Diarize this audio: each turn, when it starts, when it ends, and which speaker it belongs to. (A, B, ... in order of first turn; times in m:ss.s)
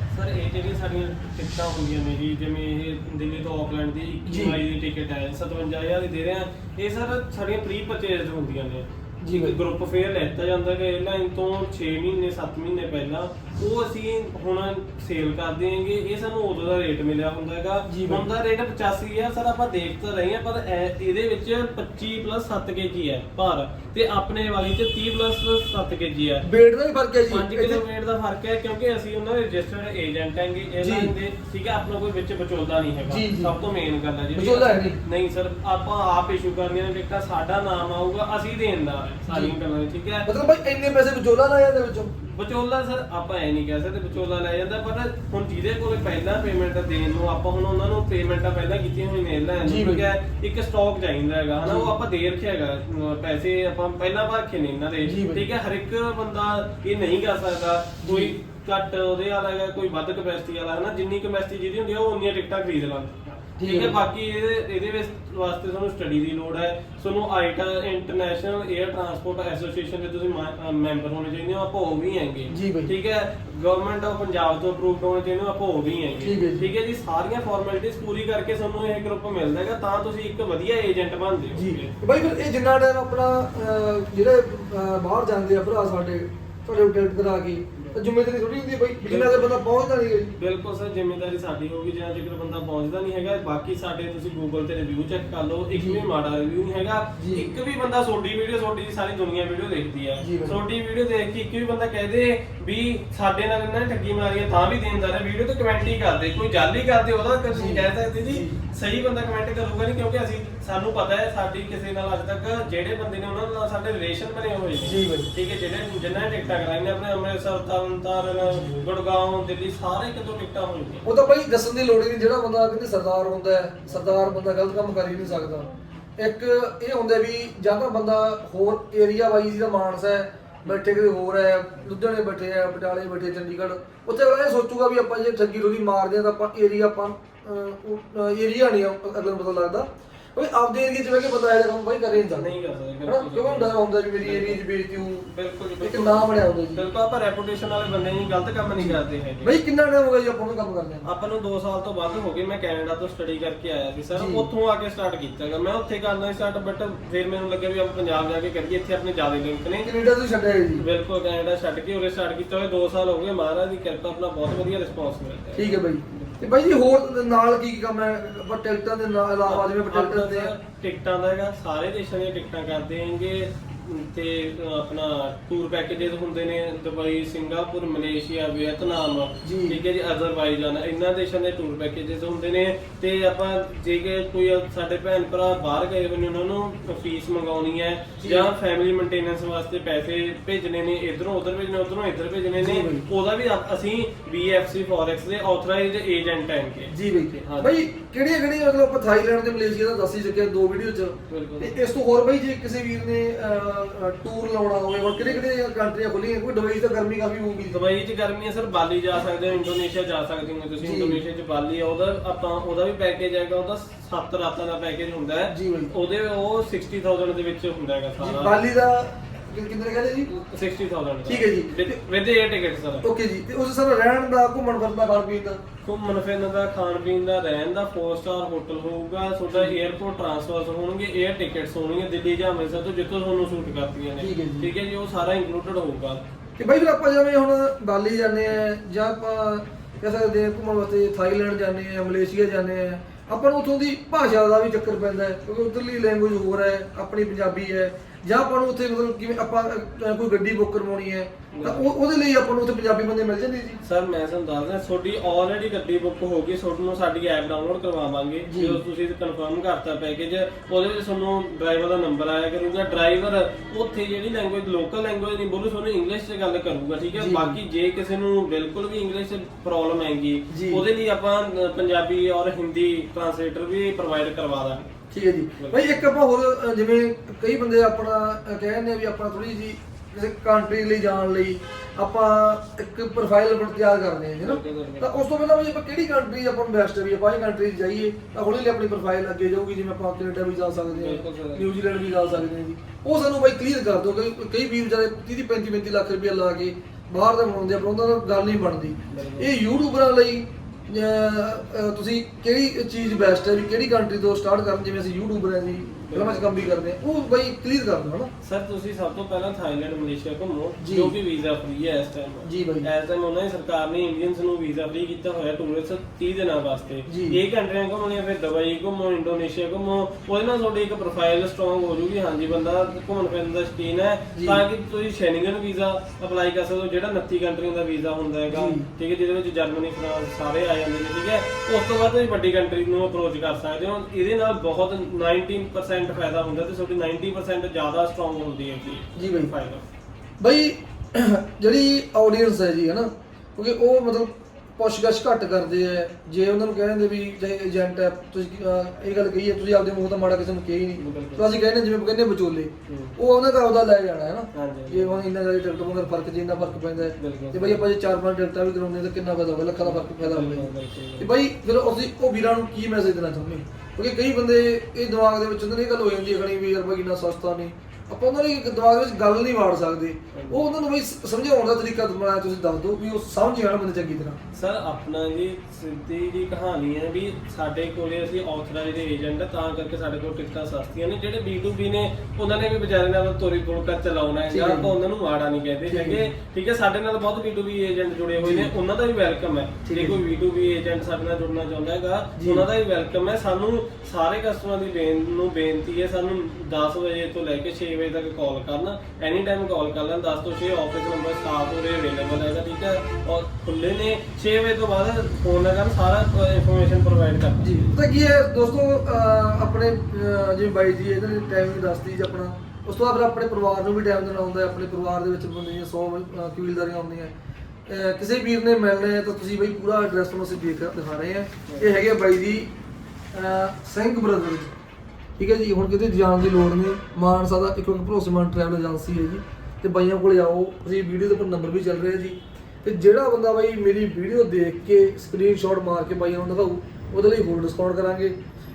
0:00.1-0:26.5 A
0:04.3-0:04.6 B
0:09.2-0:09.6 B
0:17.9-0:18.3 B
0:26.4-0:27.8 B
0:27.3-0:40.3 A
0:30.8-0:31.1 B
0:33.1-0:33.5 B
0:34.3-0:35.0 B
0:39.3-0:39.5 B
0:40.3-0:42.1 B
0:42.2-1:22.0 A
0:49.6-0:50.1 B
0:51.6-0:51.9 B
0:55.0-0:55.5 B
0:58.0-0:58.3 B
1:03.6-1:04.0 B
1:12.5-1:12.9 B
1:16.2-1:16.7 B
1:21.6-1:30.4 B
1:29.0-1:29.6 A
1:30.4-2:01.1 A
1:35.8-1:36.0 B
1:37.2-1:37.5 B
1:40.2-1:40.6 B
1:47.5-1:48.6 B
1:54.8-1:55.3 B
1:58.5-1:58.8 B
2:01.0-2:25.3 B
2:22.2-2:29.6 A
2:25.8-2:26.8 B
2:28.8-2:31.1 B
2:31.0-2:39.9 A
2:34.1-2:34.5 B
2:39.8-2:40.8 B
2:40.8-2:46.4 A
2:45.6-2:50.5 B
2:49.4-3:17.8 A
2:59.4-2:59.8 B
3:08.2-3:08.5 B
3:12.6-3:13.1 B
3:16.9-3:27.8 B
3:21.3-3:21.8 A
3:25.2-3:25.4 A
3:27.7-3:38.6 A
3:30.8-3:31.2 B
3:35.5-3:35.9 B
3:38.2-3:40.3 B
3:40.3-3:43.0 A
3:41.3-3:41.9 B
3:43.0-3:45.6 B
3:45.8-3:56.2 A
3:54.2-3:54.7 B
3:56.6-4:13.8 B
4:11.5-4:11.9 A
4:13.8-4:34.9 A
4:18.5-4:18.8 B
4:27.2-4:27.6 B
4:30.5-4:30.8 B
4:35.1-5:08.3 B
4:35.6-4:36.1 A
4:44.4-4:45.2 A
4:50.9-4:51.7 A
4:59.1-4:59.5 A
5:06.0-5:06.8 A
5:08.4-5:39.8 A
5:10.8-5:11.1 B
5:12.5-5:12.9 B
5:17.1-5:17.4 B
5:24.4-5:24.6 B
5:28.5-5:28.9 B
5:39.2-5:39.5 B
5:40.4-6:14.4 B
5:51.0-5:51.5 A
5:52.9-5:53.2 A
5:54.5-5:55.2 A
5:57.2-5:57.8 A
5:59.8-6:01.3 A
6:10.3-6:10.6 A
6:14.5-6:48.0 A
6:24.5-6:24.9 B
6:25.9-6:26.3 B
6:28.4-6:28.7 B
6:29.8-6:30.2 B
6:32.4-6:32.7 B
6:47.6-6:57.3 B
6:57.9-7:02.7 B
7:01.7-7:02.0 A
7:03.3-7:04.7 B
7:05.4-7:18.4 B